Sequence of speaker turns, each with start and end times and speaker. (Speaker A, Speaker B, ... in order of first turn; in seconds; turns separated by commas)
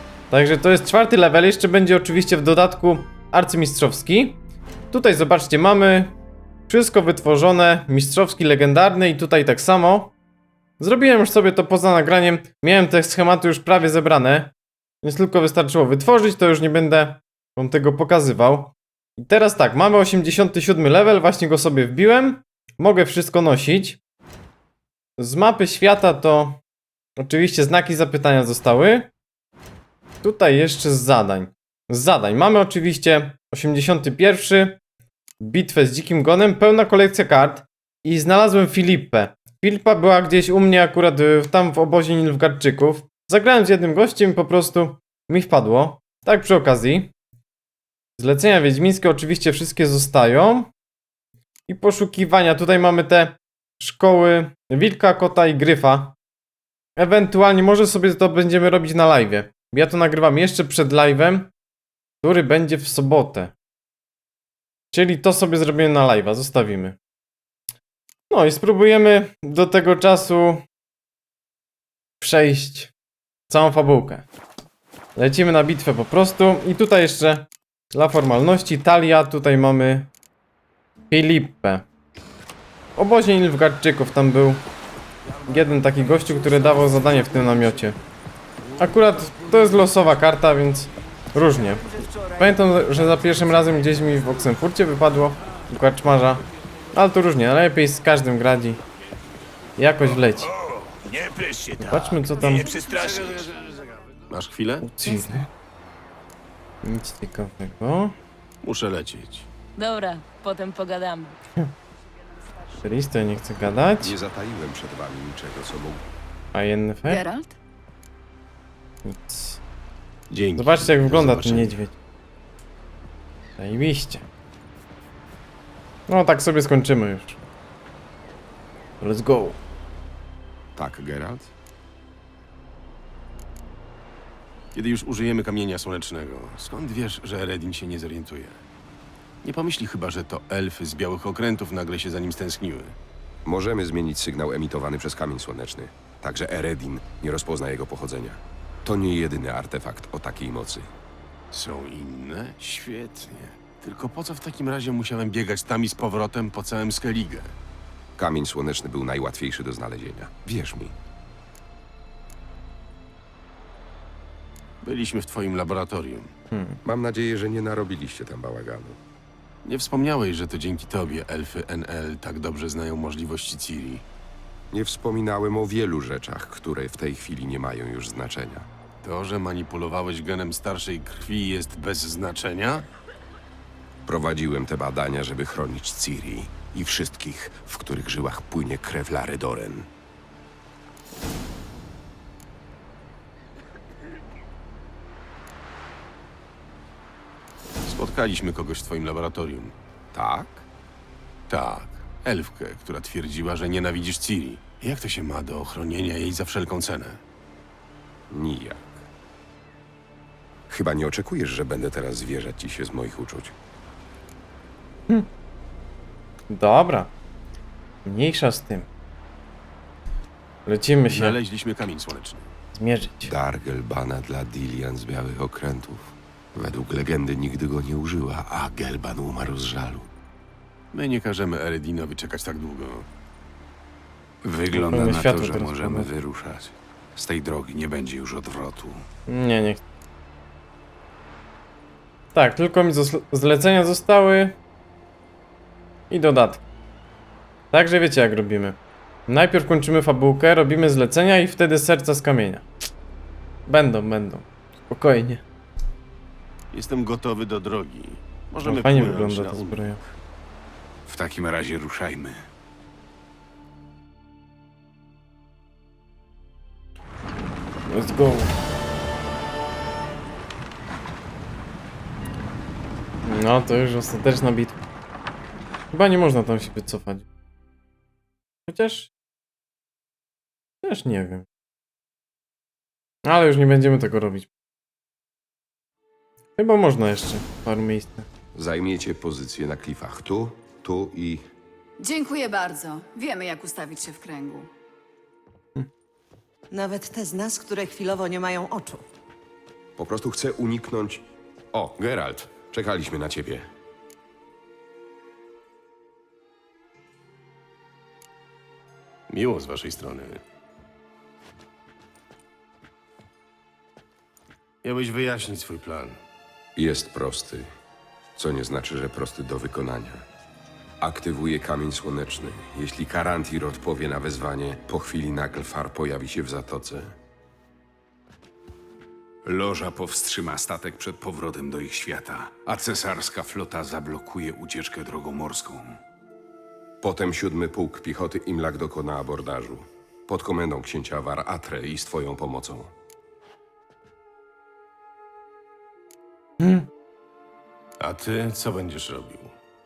Speaker A: 0.3-4.4, Speaker A: 4.9-6.2, Speaker A: 6.7-10.1, Speaker A: 10.8-24.0, Speaker A: 25.2-26.6, Speaker A: 27.2-29.1, Speaker A: 30.2-34.8, Speaker A: 35.4-47.1, Speaker A: 48.2-50.7, Speaker A: 51.7-56.2, Speaker A: 57.0-61.5, Speaker A: 62.2-63.5, Speaker A: 64.9-67.0, Speaker A: 68.3-70.6, Speaker A: 72.2-72.9, Speaker A: 73.5-74.3, Speaker A: 75.2-80.1, Speaker A: 81.1-81.8, Speaker A: 83.0-84.6, Speaker A: 85.5-88.0, Speaker A: 88.8-98.8, Speaker A: 99.8-100.5, Speaker B: 101.2-102.3, Speaker A: 101.8-102.7, Speaker C: 102.6-103.4, Speaker B: 104.3-104.9, Speaker A: 104.8-105.5, Speaker A: 106.8-108.2, Speaker B: 108.6-109.5, Speaker C: 109.8-111.4, Speaker A: 112.8-114.1, Speaker D: 114.0-116.0, Speaker A: 116.5-117.2, Speaker E: 117.1-117.6, Speaker A: 119.0-119.6, Speaker B: 120.3-121.8, Speaker A: 120.6-122.0, Speaker A: 123.6-124.3, Speaker A: 126.1-127.4, Speaker A: 129.0-129.6, Speaker D: 130.8-131.5, Speaker B: 134.7-138.6, Speaker B: 139.4-143.0, Speaker D: 143.4-150.9, Speaker B: 151.5-157.5, Speaker D: 158.2-160.9, Speaker B: 164.8-166.3, Speaker A: 166.5-166.8, Speaker D: 166.8-169.0, Speaker B: 169.7-174.1, Speaker D: 174.7-178.7, Speaker B: 179.0-182.9, Speaker D: 184.1-189.9, Speaker B: 197.9-199.7, Speaker D: 200.1-200.7, Speaker B: 201.5-207.2, Speaker D: 208.3-209.1, Speaker D: 210.7-213.6, Speaker A: 216.5-217.1, Speaker A: 218.1-218.9, Speaker A: 220.7-221.4, Speaker B: 221.1-222.5, Speaker A: 222.7-223.3, Speaker D: 223.2-230.1, Speaker B: 230.9-233.1, Speaker F: 234.4-239.0, Speaker A: 234.7-236.1, Speaker A: 239.3-239.8, Speaker A: 242.3-244.6, Speaker A: 246.1-246.6, Speaker A: 247.7-252.7, Speaker A: 253.7-255.4, Speaker B: 256.7-260.0, Speaker A: 258.6-260.0, Speaker F: 261.1-262.4, Speaker A: 267.9-268.5, Speaker A: 273.3-274.8, Speaker A: 275.9-277.3, Speaker A: 278.7-279.1, Speaker A: 280.8-281.5, Speaker A: 283.2-284.5, Speaker A: 286.6-288.3, Speaker D: 288.5-291.5, Speaker E: 292.0-294.7, Speaker G: 296.7-299.1, Speaker D: 300.0-303.7, Speaker B: 309.3-310.4, Speaker B: 314.8-316.2, Speaker D: 316.8-317.7, Speaker D: 318.4-320.2, Speaker D: 321.0-327.2, Speaker F: 329.4-336.0, Speaker D: 337.0-342.9, Speaker A: 346.6-346.9, Speaker B: 348.0-349.5